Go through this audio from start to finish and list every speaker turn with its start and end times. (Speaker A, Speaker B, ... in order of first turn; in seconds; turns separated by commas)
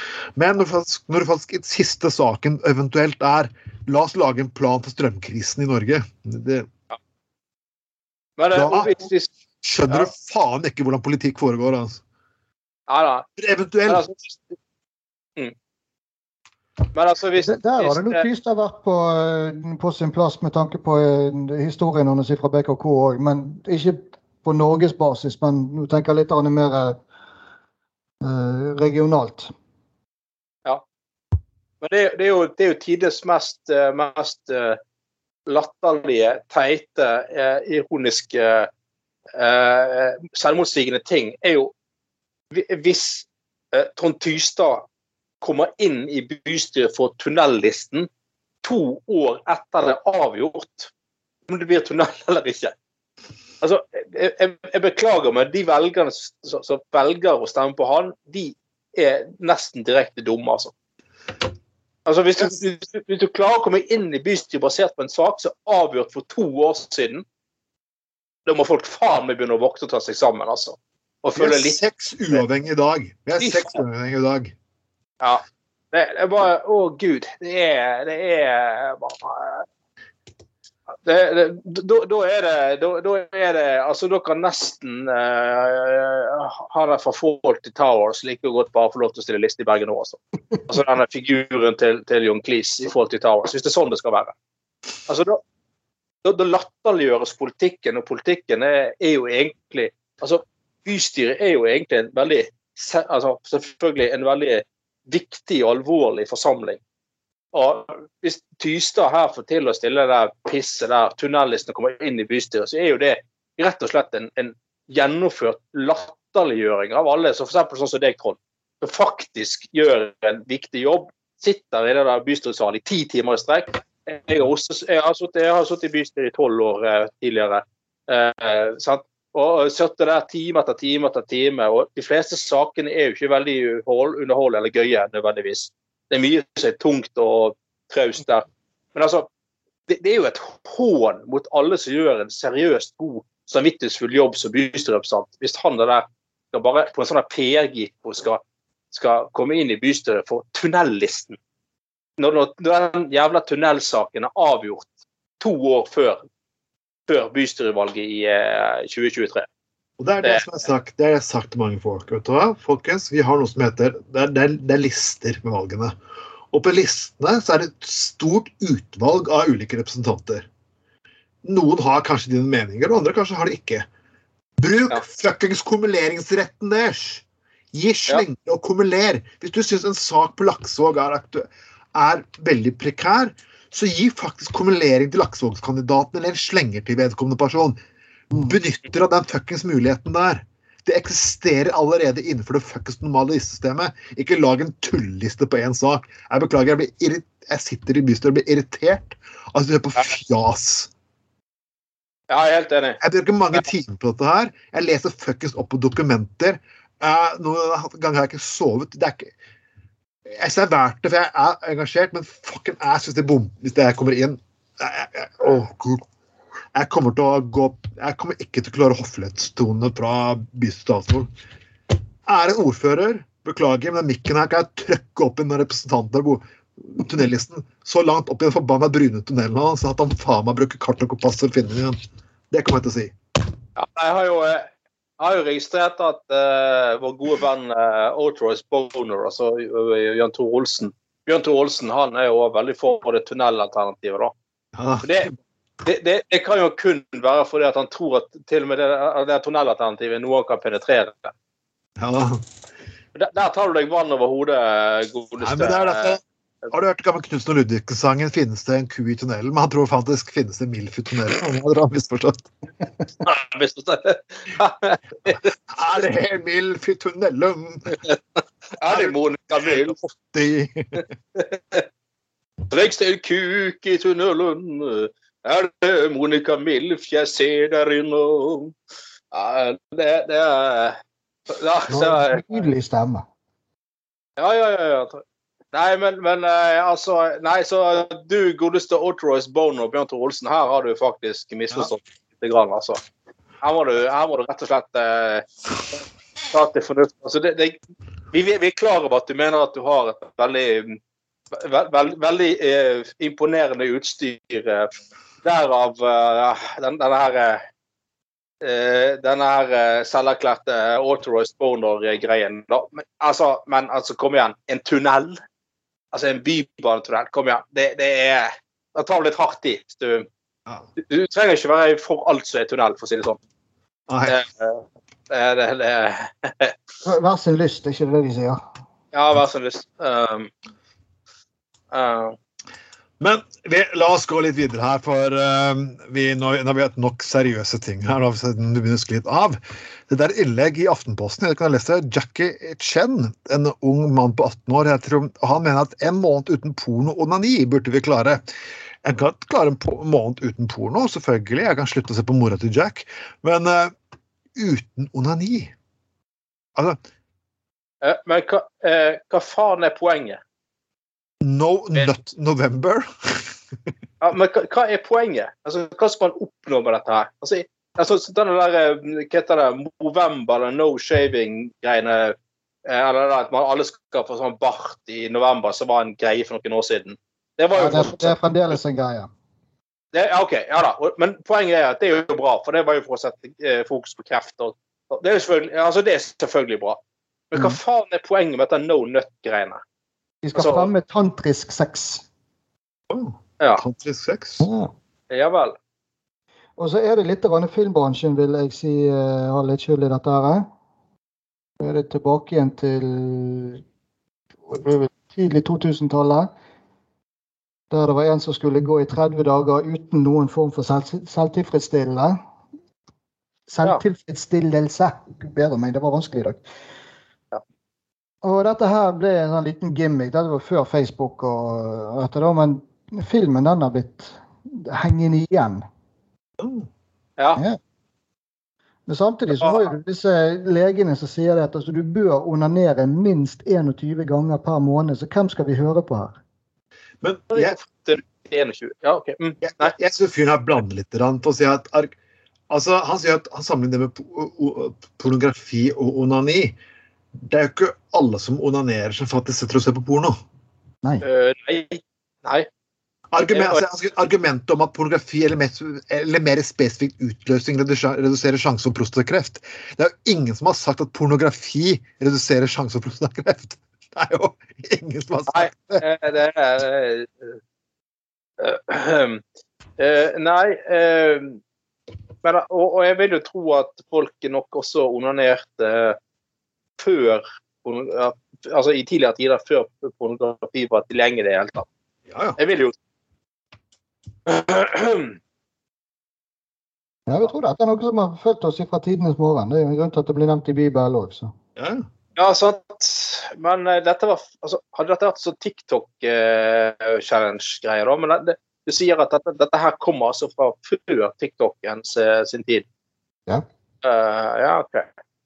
Speaker A: 0.3-6.7, Speaker B: 8.4-9.3, Speaker A: 8.5-9.0, Speaker A: 9.6-12.0, Speaker B: 12.9-13.3, Speaker A: 13.4-14.0, Speaker B: 13.9-14.5, Speaker B: 16.9-18.3, Speaker C: 17.4-27.0, Speaker C: 28.2-29.5, Speaker B: 31.8-34.8, Speaker B: 35.5-38.7, Speaker B: 39.4-41.7, Speaker B: 42.5-44.9, Speaker B: 45.4-48.1, Speaker B: 48.6-50.9, Speaker B: 51.5-52.7, Speaker B: 53.6-60.7, Speaker B: 62.0-67.2, Speaker B: 68.5-71.8, Speaker A: 71.3-74.5, Speaker B: 73.4-73.8, Speaker B: 75.2-79.7, Speaker B: 81.0-94.3, Speaker B: 95.1-95.4, Speaker B: 96.2-106.8, Speaker B: 107.5-139.3, Speaker B: 139.9-148.4, Speaker B: 148.9-151.4, Speaker B: 152.2-154.9, Speaker B: 155.4-156.2, Speaker B: 157.1-159.5, Speaker A: 160.0-166.0, Speaker B: 160.2-160.6, Speaker A: 166.5-170.4, Speaker A: 171.4-173.8, Speaker A: 174.6-187.8, Speaker A: 188.3-200.9, Speaker B: 202.3-203.0, Speaker A: 203.0-209.3, Speaker A: 210.3-216.1, Speaker A: 216.7-221.3, Speaker A: 222.2-232.0, Speaker A: 232.5-233.1, Speaker B: 233.8-244.3, Speaker A: 244.7-245.3, Speaker B: 245.0-245.3, Speaker B: 245.8-251.3, Speaker A: 252.0-252.4, Speaker B: 253.1-256.2, Speaker A: 255.4-262.5, Speaker B: 263.2-265.4, Speaker A: 265.3-267.9, Speaker B: 267.9-268.2, Speaker B: 268.8-270.0, Speaker A: 268.9-271.0, Speaker B: 271.4-271.9, Speaker B: 272.7-278.7, Speaker B: 279.3-281.0, Speaker B: 281.5-282.4, Speaker C: 281.9-283.2, Speaker B: 284.4-285.2, Speaker B: 285.7-293.0, Speaker B: 293.6-295.5, Speaker B: 296.5-297.8, Speaker B: 298.3-301.0, Speaker B: 301.5-304.9, Speaker B: 305.4-307.6, Speaker B: 308.6-315.4, Speaker B: 316.1-320.3, Speaker B: 321.0-323.4, Speaker A: 324.1-324.4, Speaker B: 324.2-326.8, Speaker C: 327.0-328.6, Speaker B: 329.1-330.5, Speaker B: 331.9-332.4, Speaker A: 333.2-348.4, Speaker A: 349.0-353.9, Speaker A: 354.5-355.7, Speaker B: 358.0-360.4, Speaker A: 361.4-363.5, Speaker B: 364.2-378.3, Speaker C: 377.7-379.3, Speaker B: 380.1-387.0, Speaker B: 387.5-389.8, Speaker C: 390.4-392.2, Speaker B: 390.6-390.9, Speaker A: 393.1-394.7, Speaker C: 394.6-394.9, Speaker B: 395.3-395.8, Speaker C: 396.8-400.7, Speaker C: 401.8-403.8, Speaker C: 404.7-406.5, Speaker C: 407.9-412.4, Speaker C: 413.7-416.6, Speaker C: 418.4-425.8, Speaker A: 426.6-426.9, Speaker C: 429.1-436.4, Speaker B: 429.6-429.9, Speaker A: 437.2-437.8, Speaker B: 437.5-439.9, Speaker A: 439.6-442.1, Speaker A: 442.7-446.8, Speaker A: 447.4-450.4, Speaker B: 451.2-452.7, Speaker A: 453.3-466.0, Speaker B: 453.5-453.8, Speaker B: 465.5-467.6, Speaker B: 468.6-469.4, Speaker B: 470.0-471.6, Speaker B: 472.4-476.2, Speaker B: 477.0-481.9, Speaker A: 482.3-482.6, Speaker B: 482.6-482.9, Speaker B: 484.4-485.4, Speaker C: 487.3-491.5, Speaker A: 491.8-492.1, Speaker B: 492.4-502.8, Speaker B: 504.0-505.1